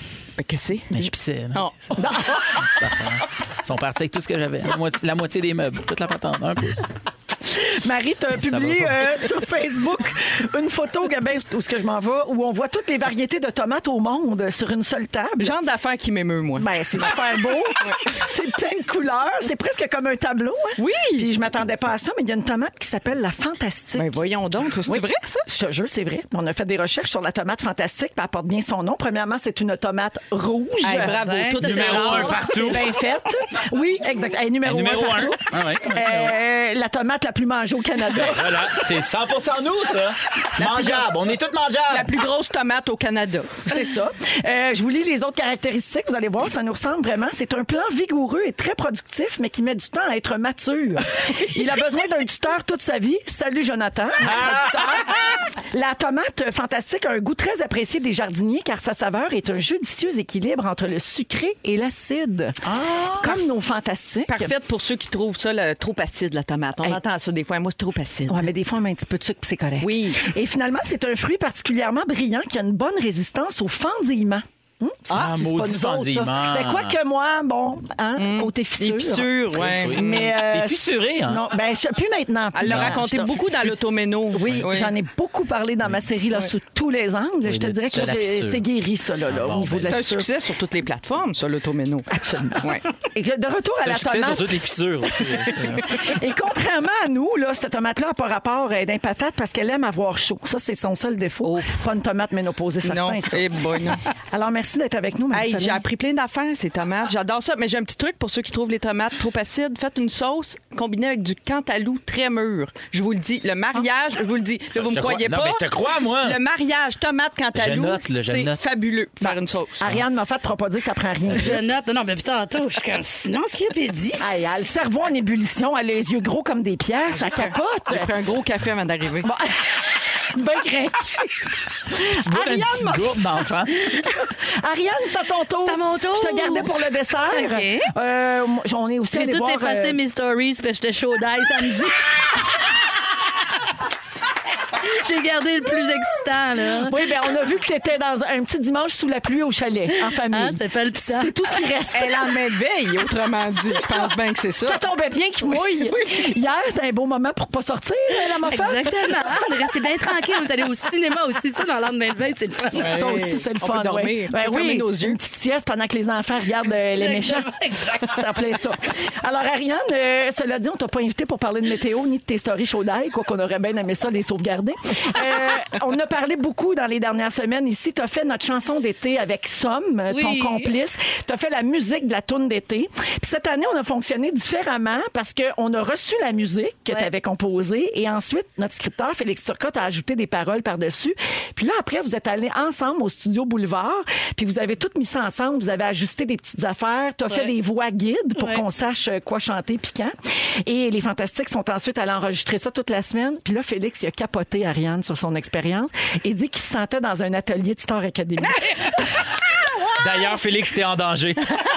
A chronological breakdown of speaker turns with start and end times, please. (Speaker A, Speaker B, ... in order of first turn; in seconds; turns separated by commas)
Speaker A: 0.4-1.7, Speaker B: 0.9-6.9, Speaker C: 2.0-2.7, Speaker C: 7.5-15.5, Speaker B: 8.4-9.1, Speaker A: 15.4-17.1, Speaker C: 16.6-24.1, Speaker A: 20.8-21.3, Speaker A: 23.9-25.5, Speaker C: 24.9-31.2, Speaker A: 30.8-32.5, Speaker D: 31.2-32.3, Speaker B: 31.6-32.8, Speaker C: 31.8-38.8, Speaker B: 34.6-36.3, Speaker B: 38.1-42.1, Speaker A: 40.6-41.1, Speaker A: 41.9-43.6, Speaker C: 43.6-62.6, Speaker B: 54.2-55.2, Speaker B: 62.6-63.4, Speaker C: 63.1-64.5, Speaker A: 64.3-68.5, Speaker C: 68.3-83.7, Speaker A: 69.8-70.3, Speaker B: 75.1-77.0, Speaker A: 78.2-80.3, Speaker B: 79.6-81.4, Speaker A: 82.5-85.0, Speaker B: 82.6-83.8, Speaker C: 84.3-90.3, Speaker B: 87.4-88.7, Speaker B: 89.3-90.2, Speaker A: 89.8-92.1, Speaker C: 92.1-94.6, Speaker B: 93.8-95.9, Speaker C: 95.6-105.8, Speaker A: 101.4-101.8, Speaker A: 102.8-104.0, Speaker A: 105.3-119.8, Speaker B: 114.8-116.4, Speaker B: 117.5-118.6, Speaker C: 119.2-121.6, Speaker D: 121.3-124.3, Speaker C: 124.2-128.1, Speaker A: 127.3-129.3, Speaker C: 129.2-131.4, Speaker C: 131.9-133.2, Speaker B: 131.9-133.9, Speaker C: 133.9-140.0, Speaker D: 135.6-136.7, Speaker D: 137.3-137.9, Speaker D: 139.1-142.4, Speaker D: 144.8-146.9, Speaker C: 146.8-152.3, Speaker D: 149.9-151.3, Speaker A: 151.9-154.8, Speaker C: 154.6-159.4, Speaker D: 158.5-163.0, Speaker A: 162.8-165.2, Speaker C: 162.8-209.0, Speaker D: 167.0-168.1, Speaker D: 180.1-180.7, Speaker D: 198.4-198.6, Speaker B: 210.0-211.5